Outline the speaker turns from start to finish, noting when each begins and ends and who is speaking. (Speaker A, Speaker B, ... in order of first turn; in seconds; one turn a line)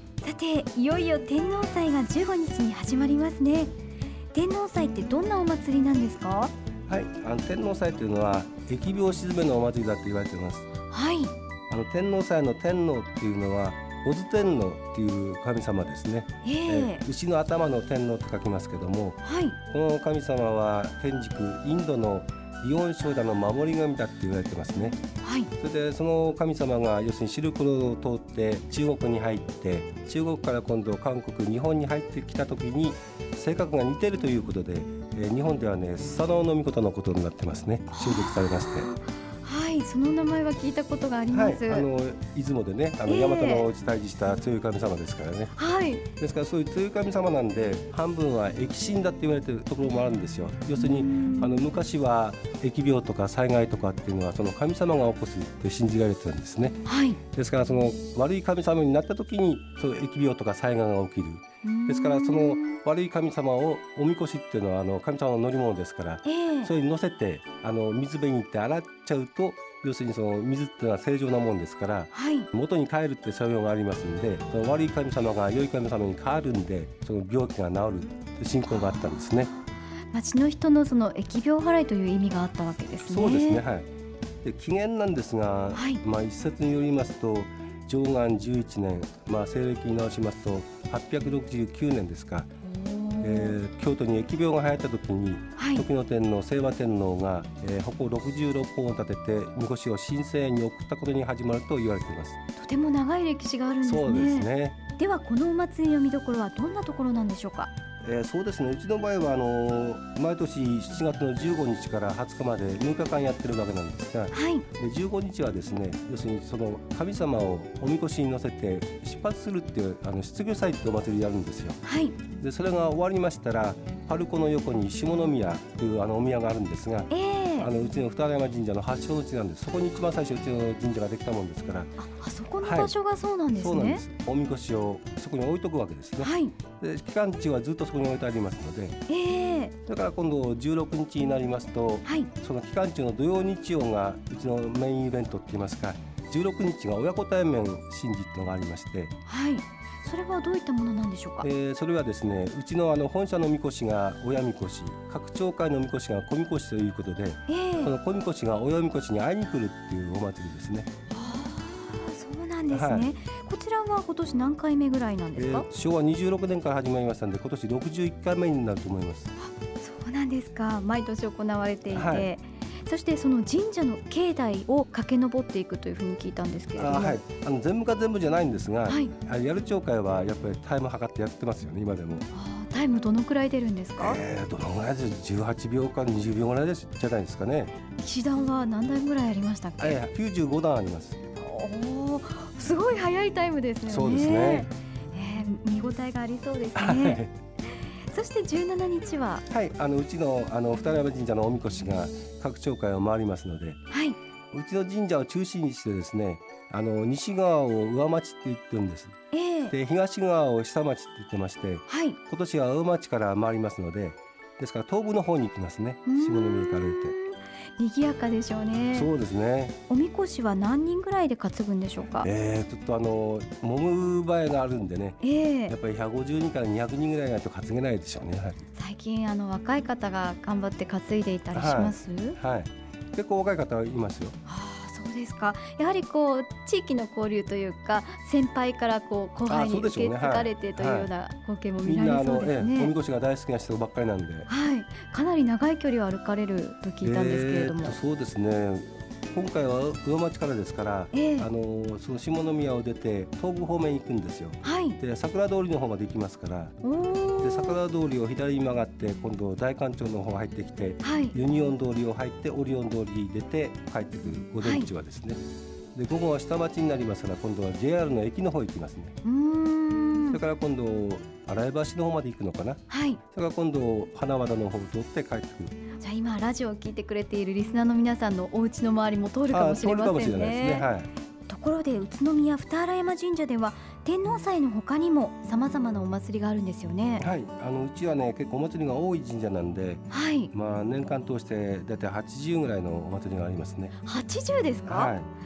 Speaker A: 0.2-3.7
Speaker A: 4.3-6.5
Speaker B: 6.9-10.7
Speaker A: 10.9-11.3
Speaker B: 11.7-19.2
Speaker A: 16.4-17.1
Speaker A: 19.2-19.6
Speaker B: 19.7-25.0
Speaker A: 25.2-25.5
Speaker B: 25.6-38.9
Speaker A: 37.9-41.9
Speaker B: 41.3-45.5
Speaker A: 43.1-43.7
Speaker A: 45.5-46.0
Speaker B: 46.2-79.5
Speaker A: 50.8-51.5
Speaker A: 56.9-57.2
Speaker A: 61.6-62.8
Speaker A: 66.2-66.7
Speaker A: 72.1-72.5
Speaker A: 78.7-83.6
Speaker B: 83.1-83.9
Speaker B: 84.4-92.5
Speaker A: 85.7-86.0
Speaker A: 92.6-93.6
Speaker B: 93.2-102.4
Speaker A: 95.6-95.8
Speaker A: 102.6-107.7
Speaker B: 103.8-104.8
Speaker B: 108.0-121.8
Speaker A: 114.3-114.7
Speaker A: 121.8-122.2
Speaker B: 122.4-132.0
Speaker A: 127.1-127.7
Speaker A: 132.0-134.0
Speaker B: 132.6-132.9
Speaker B: 133.6-139.0
Speaker A: 136.2-136.6
Speaker A: 139.1-139.8
Speaker B: 139.9-149.1
Speaker A: 149.3-151.5
Speaker B: 151.4-160.9
Speaker A: 157.5-157.9
Speaker A: 161.1-165.7
Speaker B: 162.7-163.1
Speaker B: 165.4-169.3
Speaker A: 169.4-177.2
Speaker B: 171.9-172.3
Speaker B: 176.8-182.3
Speaker A: 178.9-179.1
Speaker A: 182.3-184.2
Speaker B: 184.0-187.7
Speaker A: 188.0-190.0
Speaker B: 189.8-191.2
Speaker A: 191.4-199.4
Speaker B: 193.9-194.7
Speaker B: 196.8-197.3
Speaker B: 199.5-203.8
Speaker A: 203.9-204.2
Speaker B: 204.5-209.2
Speaker A: 209.3-209.7
Speaker B: 209.7-217.2
Speaker A: 211.9-212.2
Speaker A: 216.1-219.1
Speaker B: 218.9-219.8
Speaker A: 219.9-222.3
Speaker B: 222.2-228.6
Speaker A: 225.2-225.8
Speaker A: 228.8-232.4
Speaker B: 231.5-234.4
Speaker A: 234.5-242.9
Speaker B: 239.5-241.1
Speaker B: 241.8-244.5
Speaker A: 244.5-248.0
Speaker B: 247.0-256.8
Speaker A: 251.1-251.5
Speaker A: 254.6-255.0
Speaker A: 256.8-257.8
Speaker B: 257.4-265.4
Speaker A: 261.0-261.4
Speaker A: 264.6-264.9
Speaker B: 265.9-269.2
Speaker A: 269.2-270.4
Speaker B: 270.3-275.8
Speaker A: 272.9-273.2
Speaker A: 276.0-280.9
Speaker B: 279.5-281.1
Speaker A: 281.5-287.2
Speaker B: 287.2-293.9
Speaker A: 290.1-290.5
Speaker A: 294.0-295.1
Speaker B: 294.9-295.3